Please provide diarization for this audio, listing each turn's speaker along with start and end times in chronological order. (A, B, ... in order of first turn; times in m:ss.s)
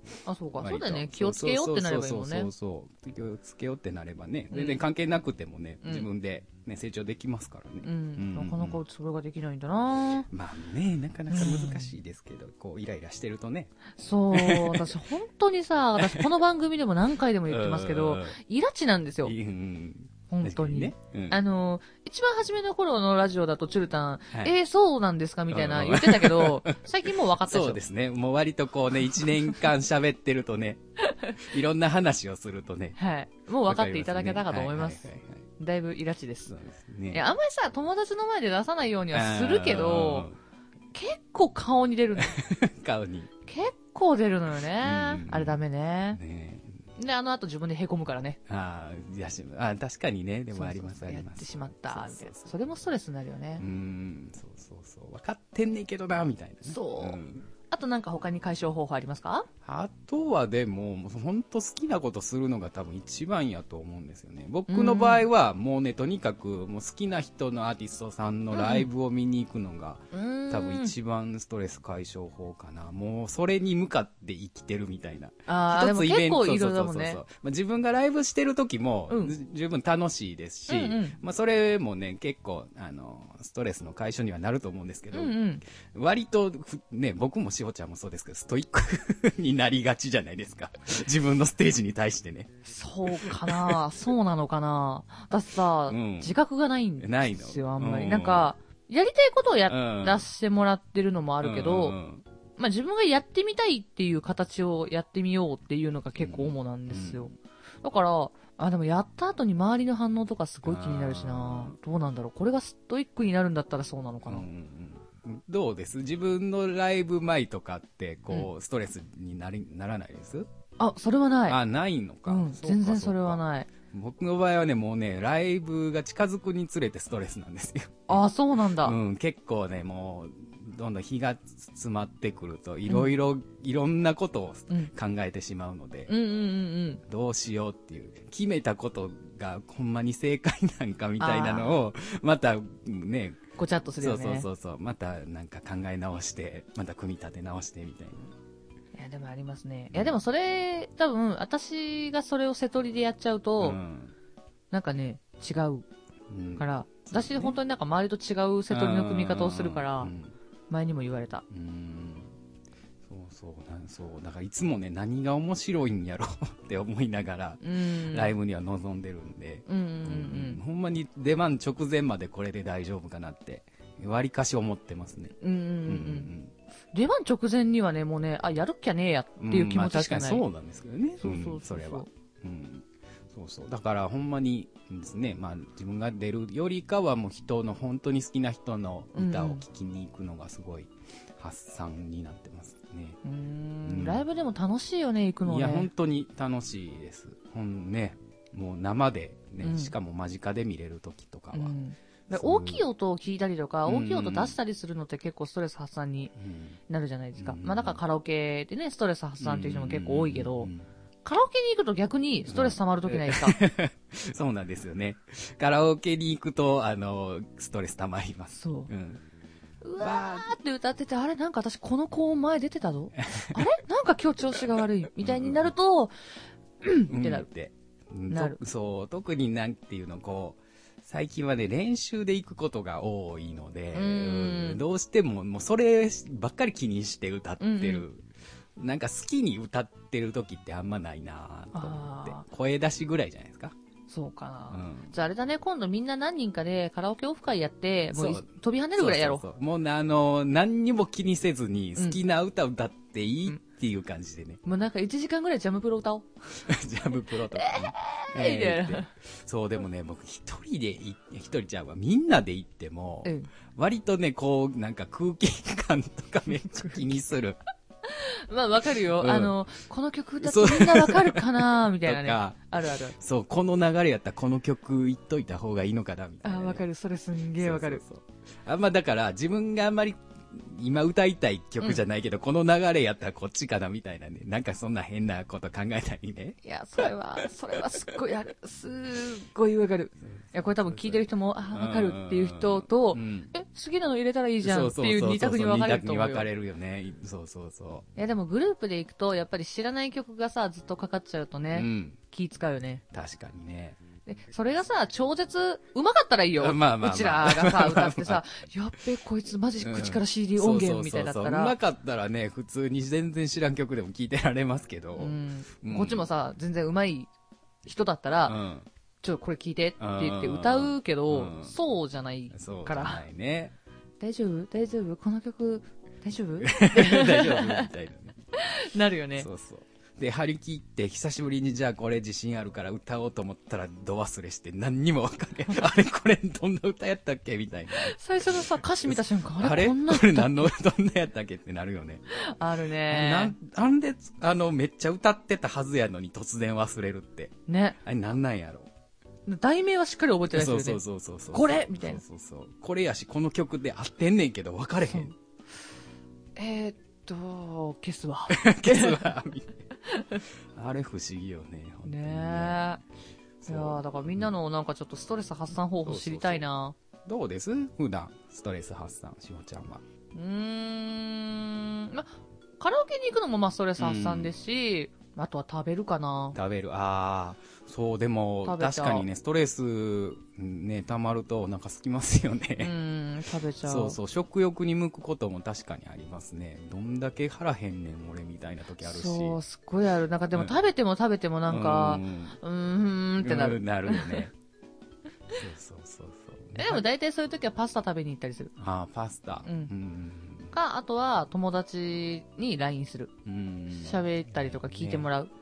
0:00.2-0:02.5 A
0:00.6-0:08.8 B
0:04.5-0:04.8 A
0:07.8-0:10.3 A
0:10.3-0:13.7 B
0:11.3-0:11.9 A
0:14.0-0:19.3 A
0:14.3-0:15.0 B
0:16.0-0:16.2 B
0:17.5-0:18.4 B
0:19.2-0:21.4 B
0:20.3-0:27.8 A
0:25.5-0:26.8 B
0:27.4-0:30.8 B
0:31.0-0:31.4 A
0:31.3-0:33.0 B
0:33.0-0:35.1 A
0:33.6-0:35.4 B
0:35.6-0:36.5 A
0:36.5-0:37.2 B
0:37.1-0:40.3 A
0:39.1-0:40.4 B
0:40.9-0:42.4 A
0:42.2-0:43.3 B
0:43.4-0:46.2 A
0:44.8-0:45.6 B
0:46.1-0:46.8 B
0:47.0-0:48.4 A
0:48.5-0:52.5 B
0:50.5-0:53.6 A
0:53.6-0:57.5 B
0:56.6-0:59.5 A
0:59.6-1:32.6 B
1:04.7-1:05.3 A
1:08.5-1:08.9 A
1:10.1-1:10.9 A
1:15.5-1:17.2 A
1:19.1-1:19.3 A
1:20.7-1:21.2 A
1:25.1-1:25.6 A
1:32.6-1:42.0 A
1:33.1-1:33.8 B
1:35.9-1:36.4 B
1:37.0-1:38.5 B
1:39.7-1:40.2 B
1:41.4-1:42.2 B
1:42.6-1:47.3 A
1:46.2-1:47.3 B
1:47.8-1:54.4 A
1:50.6-1:51.8 B
1:54.2-2:00.5 B
2:00.8-2:01.6 A
2:01.5-2:08.2 B
2:02.3-2:03.7 A
2:08.1-2:09.0 A
2:08.8-2:16.1 B
2:12.9-2:13.2 A
2:16.1-2:17.0 A
2:17.0-2:23.4 B
2:21.2-2:21.8 A
2:23.6-2:24.5 A
2:24.0-2:28.3 B
2:28.9-2:33.8 A
2:29.9-2:30.2 B
2:33.6-2:34.1 B
2:34.7-2:35.9 A
2:36.3-2:37.6 B
2:36.6-2:40.1 A
2:38.7-2:40.3 B
2:40.7-2:41.4 A
2:41.5-2:42.3 B
2:43.0-2:55.3 B
2:47.6-2:48.3 A
2:49.7-2:50.6 A
2:55.4-2:56.3 A
2:55.8-2:56.5 B
2:56.9-3:00.4 A
2:59.4-3:13.2 B
3:01.2-3:02.1 A
3:09.1-3:09.6 A
3:13.2-3:15.9 A
3:13.8-3:14.2 B
3:15.4-3:21.7 B
3:19.6-3:19.9 A
3:21.5-3:26.3 A
3:22.3-3:22.8 B
3:23.8-3:24.6 B
3:26.3-3:26.8 B
3:26.9-3:30.7 A
3:27.4-3:28.0 B
3:29.4-3:30.8 B
3:31.2-3:33.6 A
3:32.5-3:39.2 B
3:38.5-3:38.9 A
3:39.8-3:46.1 A
3:40.0-3:40.5 B
3:43.3-3:43.6 B
3:45.2-3:45.7 B
3:46.8-3:47.4 A
3:47.1-3:58.2 B
3:48.3-3:48.6 A
3:53.9-3:54.8 A
3:57.6-3:58.0 A
3:58.8-4:03.7 B
4:01.7-4:02.4 A
4:04.1-4:09.4 A
4:04.7-4:05.1 B
4:08.1-4:14.6 B
4:14.6-4:16.3 A
4:16.5-4:27.6 B
4:17.4-4:19.1 A
4:23.2-4:23.5 A
4:28.0-4:33.2 A
4:29.0-4:29.6 B
4:30.4-4:36.8 B
4:36.4-4:38.0 A
4:37.6-4:47.1 B
4:46.6-4:56.5 A
4:50.3-4:53.5 B
4:54.6-4:58.1 B
4:58.2-5:03.0 A
5:01.7-5:02.2 B
5:03.1-5:04.0 B
5:04.2-5:11.8 A
5:06.6-5:08.4 B
5:09.8-5:16.2 B
5:15.2-5:17.3 A
5:17.8-5:18.6 A
5:18.4-5:18.9 B
5:19.2-5:23.2 A
5:20.0-5:21.7 B
5:22.5-5:23.8 B
5:24.2-5:27.9 A
5:26.6-5:28.4 B
5:28.5-5:29.5 A
5:29.4-5:42.2 B
5:37.9-5:40.7 A
5:42.3-5:43.6 A
5:43.0-5:48.9 B
5:47.7-5:48.0 A
5:49.5-5:51.0 A
5:50.5-5:55.3 B
5:51.5-5:52.2 A
5:55.0-5:55.3 A
5:56.6-5:59.3 A
5:58.5-5:59.8 B
6:00.0-6:00.4 A
6:00.7-6:02.8 B
6:02.0-6:03.0 A
6:03.6-6:04.5 B
6:03.6-6:06.9 A
6:06.0-6:06.6 B
6:07.2-6:10.0 B
6:10.3-6:16.6 A
6:14.0-6:14.5 B
6:16.5-6:22.9 B
6:18.6-6:19.3 A
6:22.8-6:24.2 A
6:23.8-6:29.6 B
6:29.0-6:34.5 A
6:31.7-6:32.6 B
6:33.4-6:34.5 B
6:35.5-6:37.0 B
6:36.8-6:38.7 A
6:38.8-6:40.7 B
6:39.6-6:39.9 A
6:40.7-6:43.3 A
6:43.4-6:45.3 B
6:43.9-6:45.5 A